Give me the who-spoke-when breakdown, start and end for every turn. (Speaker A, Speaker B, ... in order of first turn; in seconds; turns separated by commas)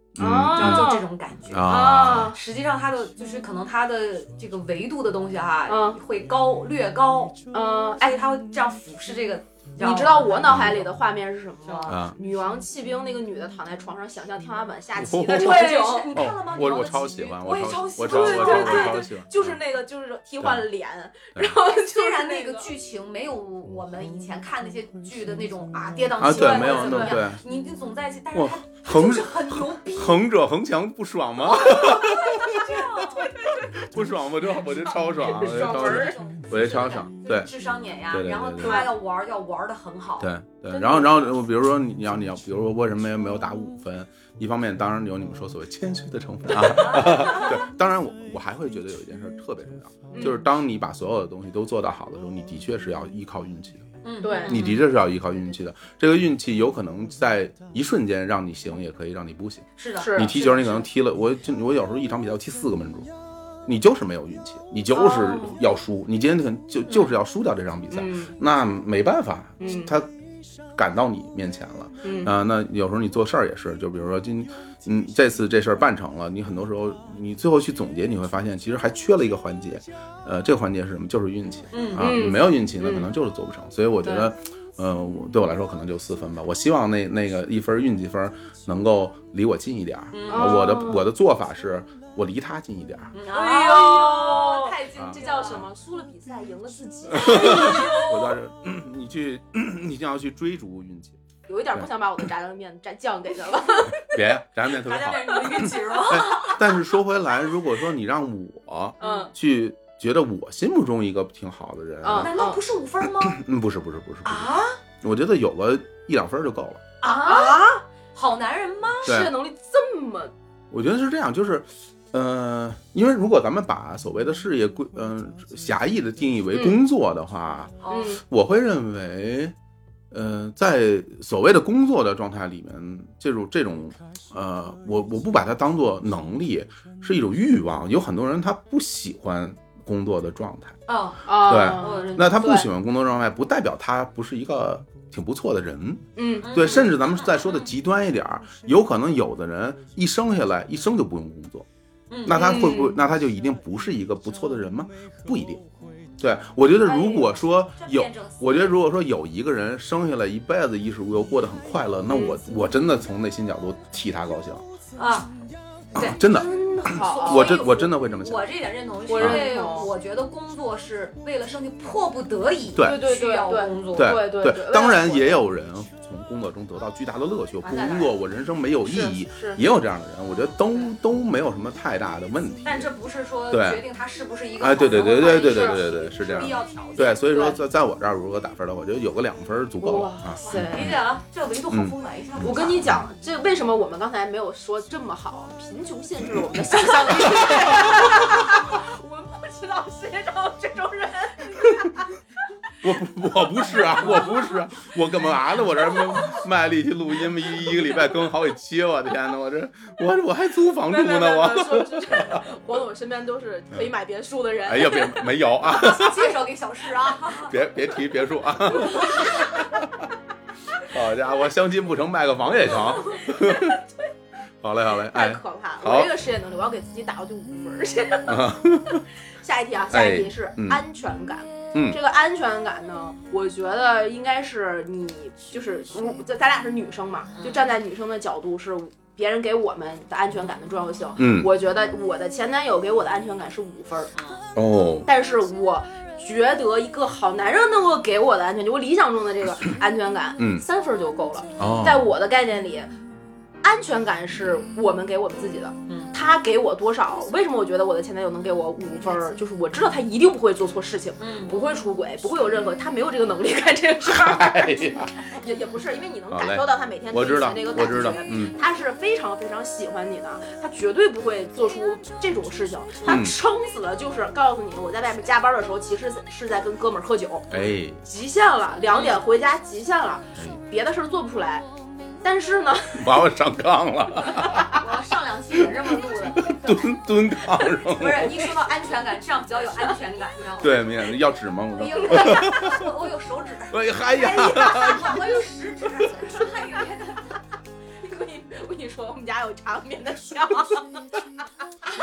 Speaker A: 0.1-0.9, Speaker B: 0.2-1.0, Speaker C: 0.5-7.4, Speaker A: 1.5-2.3, Speaker B: 1.6-2.4, Speaker B: 5.7-6.0, Speaker B: 7.5-8.1, Speaker C: 8.0-10.8, Speaker B: 9.8-16.1, Speaker A: 10.5-10.8, Speaker C: 11.6-12.0, Speaker A: 11.9-12.2, Speaker A: 14.9-19.6, Speaker C: 15.3-19.0, Speaker B: 17.9-22.7, Speaker A: 20.4-20.7, Speaker C: 21.7-30.2, Speaker A: 26.2-27.4, Speaker B: 26.3-27.2, Speaker A: 28.3-37.5, Speaker C: 31.5-33.3, Speaker B: 35.1-36.2, Speaker C: 35.4-41.2, Speaker A: 38.1-38.9, Speaker B: 38.6-38.9, Speaker A: 40.2-53.9, Speaker C: 46.6-47.6, Speaker B: 50.1-50.4, Speaker C: 54.0-54.8, Speaker B: 54.2-54.7, Speaker A: 54.5-63.1, Speaker C: 59.8-60.4, Speaker B: 60.0-60.8, Speaker A: 63.6-70.1, Speaker B: 64.9-65.6, Speaker B: 67.9-68.3, Speaker B: 69.6-69.9, Speaker A: 70.7-93.1, Speaker B: 72.0-72.3, Speaker C: 81.7-82.1, Speaker B: 82.0-83.1, Speaker B: 84.0-84.3, Speaker C: 90.1-90.7, Speaker B: 90.3-91.1, Speaker C: 93.1-95.6, Speaker B: 93.3-98.3, Speaker A: 94.9-95.6, Speaker A: 97.1-101.2, Speaker C: 97.2-98.1, Speaker B: 101.5-104.1, Speaker A: 104.0-112.3, Speaker C: 104.7-106.6, Speaker C: 109.0-109.3, Speaker B: 109.0-109.3, Speaker B: 112.0-112.6, Speaker C: 112.2-113.4, Speaker A: 113.0-116.8, Speaker C: 114.2-114.8, Speaker C: 117.0-119.3, Speaker B: 117.2-117.8, Speaker B: 119.0-120.3, Speaker A: 119.0-119.3, Speaker A: 120.7-129.6, Speaker B: 126.5-126.8, Speaker C: 127.8-128.2, Speaker B: 127.9-128.2, Speaker A: 130.1-140.8, Speaker C: 140.9-142.5, Speaker B: 141.3-142.7, Speaker A: 141.4-151.7, Speaker B: 146.2-146.9, Speaker C: 146.4-147.7, Speaker C: 152.1-152.7, Speaker A: 152.2-155.6, Speaker B: 152.3-153.0, Speaker A: 156.2-164.7, Speaker B: 156.9-157.2, Speaker C: 157.8-158.8, Speaker B: 162.1-162.4, Speaker C: 165.0-165.3, Speaker A: 165.9-168.5, Speaker B: 166.2-167.9, Speaker C: 166.9-174.2, Speaker B: 169.1-169.9, Speaker A: 169.2-169.4, Speaker A: 172.8-173.0, Speaker B: 172.8-175.4, Speaker A: 173.9-182.9, Speaker C: 177.6-178.1, Speaker B: 178.9-179.6, Speaker C: 182.6-187.2, Speaker A: 183.5-183.8, Speaker A: 184.6-190.9, Speaker B: 187.3-187.6, Speaker B: 189.8-190.9, Speaker C: 190.4-192.9, Speaker A: 191.7-192.9, Speaker B: 192.4-202.2, Speaker A: 197.1-198.1, Speaker A: 202.8-212.4, Speaker B: 203.8-204.5, Speaker B: 205.9-206.3, Speaker B: 210.9-215.3, Speaker A: 214.6-216.3, Speaker C: 215.7-217.6, Speaker A: 217.4-220.1, Speaker A: 220.8-223.8, Speaker B: 222.7-223.8, Speaker A: 224.6-226.1, Speaker B: 225.1-228.5, Speaker A: 228.3-229.1, Speaker B: 229.4-244.1, Speaker A: 229.9-230.8, Speaker C: 237.4-237.7, Speaker A: 241.2-241.5, Speaker A: 244.6-245.1, Speaker B: 245.1-252.9, Speaker A: 250.4-250.6, Speaker A: 251.6-252.1, Speaker B: 253.6-277.5, Speaker C: 255.9-256.1, Speaker C: 261.2-261.6, Speaker A: 264.1-265.2, Speaker A: 266.3-268.6, Speaker A: 273.0-273.4, Speaker A: 277.5-278.0, Speaker B: 278.1-281.7, Speaker C: 278.9-279.2, Speaker B: 282.2-283.2, Speaker A: 282.9-284.8, Speaker C: 284.7-286.9, Speaker A: 286.4-288.4, Speaker C: 287.9-290.8, Speaker A: 290.6-292.8, Speaker C: 291.8-297.3, Speaker A: 293.7-295.2, Speaker B: 298.0-300.9